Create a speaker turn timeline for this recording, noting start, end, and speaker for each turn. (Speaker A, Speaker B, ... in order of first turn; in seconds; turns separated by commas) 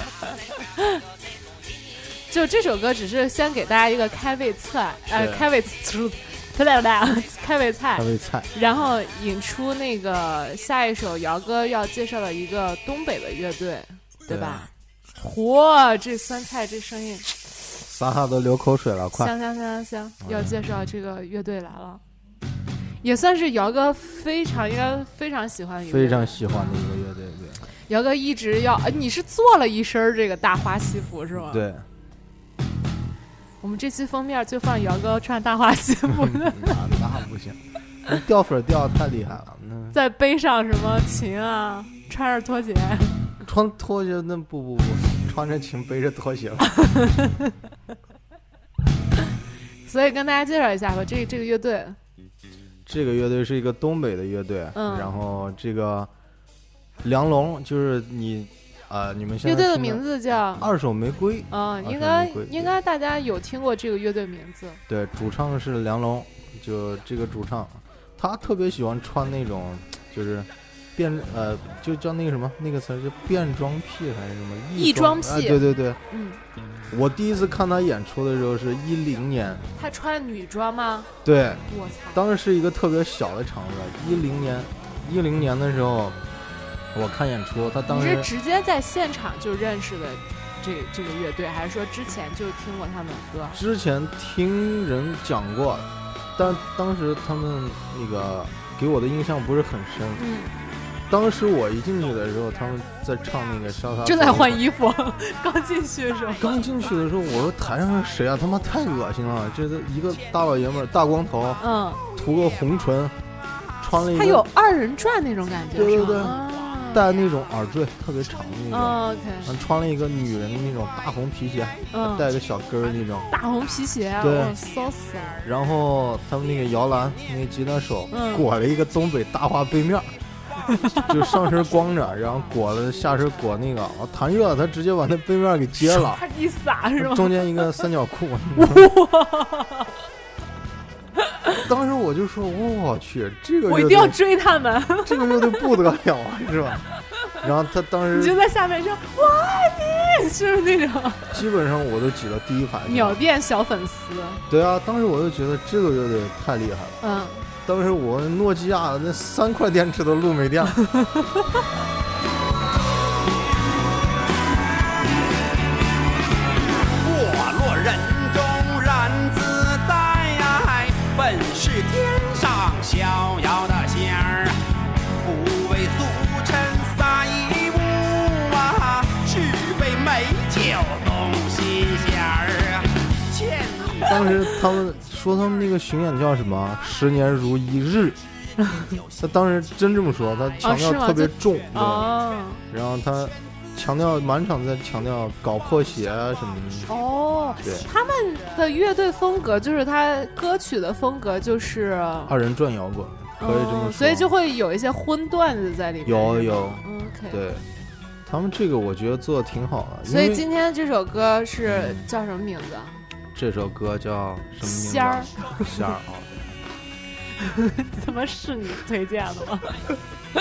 Speaker A: 2.3-17.3, Speaker B: 5.1-5.5, Speaker B: 7.9-8.5, Speaker B: 14.3-14.7, Speaker B: 17.8-19.3, Speaker A: 19.1-22.0, Speaker B: 20.2-20.5, Speaker A: 23.0-26.8, Speaker B: 25.9-27.6, Speaker A: 27.9-31.6, Speaker B: 31.5-31.9, Speaker A: 33.6-36.8, Speaker B: 36.1-40.0, Speaker A: 39.9-43.2, Speaker B: 43.4-46.7, Speaker A: 46.8-47.3, Speaker A: 49.9-52.0, Speaker B: 52.9-56.1, Speaker A: 54.7-55.2, Speaker B: 57.0-60.0, Speaker A: 59.4-60.7, Speaker B: 60.6-62.7, Speaker A: 61.5-64.8, Speaker B: 64.9-76.0, Speaker A: 74.7-76.4, Speaker B: 76.9-79.7, Speaker A: 79.8-81.1, Speaker B: 81.2-86.2, Speaker A: 81.7-82.2, Speaker B: 86.9-88.3, Speaker A: 87.9-93.6, Speaker B: 93.5-100.2, Speaker A: 100.2-100.5, Speaker B: 101.1-104.6, Speaker A: 104.0-106.5, Speaker B: 106.4-111.6, Speaker A: 111.6-112.0, Speaker B: 112.1-113.2, Speaker B: 113.8-114.5, Speaker A: 114.0-117.0, Speaker B: 115.7-123.3, Speaker A: 118.7-119.6, Speaker A: 121.9-122.3, Speaker A: 123.3-125.4, Speaker B: 124.2-124.6, Speaker B: 125.4-130.1, Speaker A: 128.1-128.4, Speaker B: 131.1-136.2, Speaker A: 135.8-137.7, Speaker B: 137.0-138.9, Speaker A: 138.6-139.9, Speaker B: 141.6-144.2, Speaker A: 143.7-145.7, Speaker B: 145.0-146.8, Speaker B: 147.4-148.4, Speaker A: 148.1-151.4, Speaker B: 151.3-153.2, Speaker A: 152.9-154.4, Speaker B: 154.5-157.0, Speaker A: 157.0-157.5, Speaker B: 157.6-160.8, Speaker C: 166.9-174.6, Speaker C: 175.2-184.0, Speaker B: 184.0-188.2, Speaker B: 189.2-192.1, Speaker A: 190.6-192.6, Speaker B: 192.7-196.9, Speaker A: 196.9-202.3, Speaker B: 197.6-197.9, Speaker B: 202.3-204.3, Speaker A: 203.4-207.4, Speaker B: 206.0-207.7, Speaker B: 208.2-210.4, Speaker A: 210.1-213.0, Speaker B: 211.6-212.1, Speaker B: 213.3-216.6, Speaker A: 214.6-215.7, Speaker A: 217.4-219.7